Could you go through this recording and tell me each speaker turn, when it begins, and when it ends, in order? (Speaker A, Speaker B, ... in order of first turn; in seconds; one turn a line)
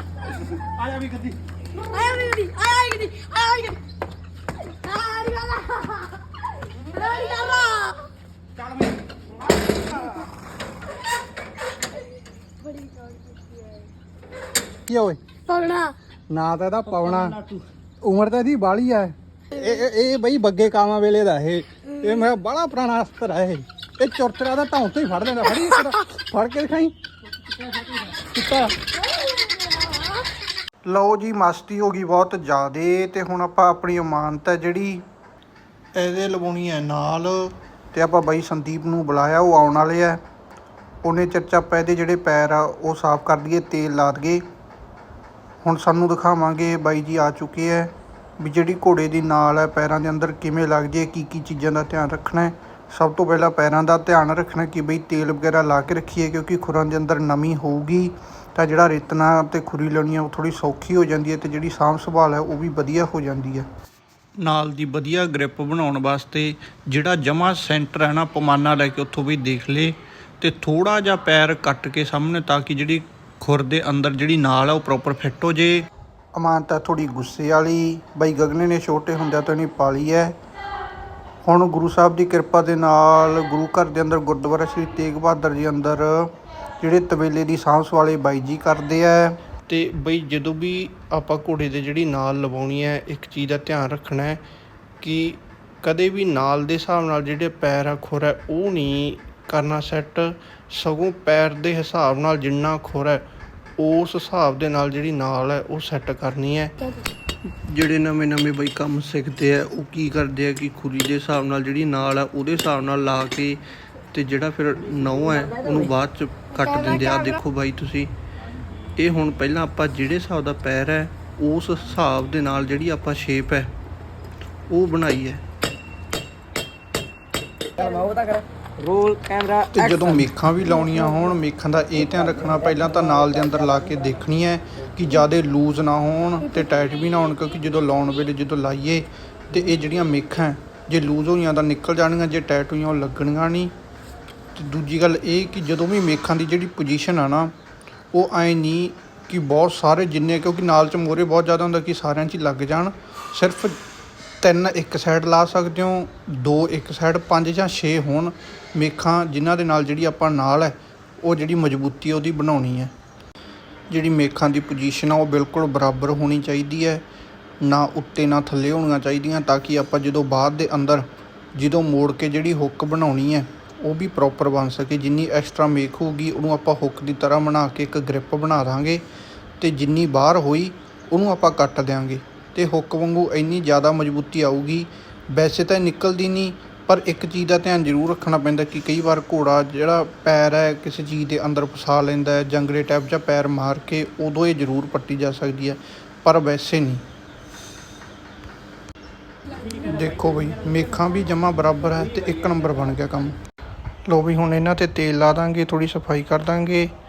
Speaker A: 0.6-1.4
Speaker B: 1.8-3.8
Speaker A: 2.9-3.7
Speaker B: 4.8-6.2
Speaker B: 6.8-8.1
Speaker B: 12.6-13.7
Speaker C: 14.9-15.2
Speaker B: 15.4-15.9
Speaker C: 16.3-17.4
Speaker A: 17.0-17.6
Speaker C: 18.1-26.9
Speaker D: 22.5-23.2
Speaker D: 24.1-24.6
Speaker D: 25.2-26.5
Speaker A: 28.2-28.8
Speaker D: 30.8-35.0
Speaker D: 35.9-40.2
Speaker D: 41.0-44.4
Speaker D: 45.6-63.7
Speaker D: 64.4-80.4
Speaker D: 81.4-94.4
Speaker D: 95.0-103.2
Speaker D: 103.8-106.8
Speaker D: 107.6-113.6
Speaker D: 114.1-118.1
Speaker B: 116.6-117.4
Speaker D: 119.0-123.7
Speaker D: 124.7-125.4
Speaker A: 127.8-129.8
Speaker D: 129.7-143.7
Speaker D: 144.5-147.5
Speaker D: 148.1-153.8
Speaker D: 154.4-162.9
Speaker D: 163.9-167.0
Speaker D: 167.6-179.0
Speaker D: 179.6-197.0
Speaker D: 199.8-203.4
Speaker D: 204.1-206.9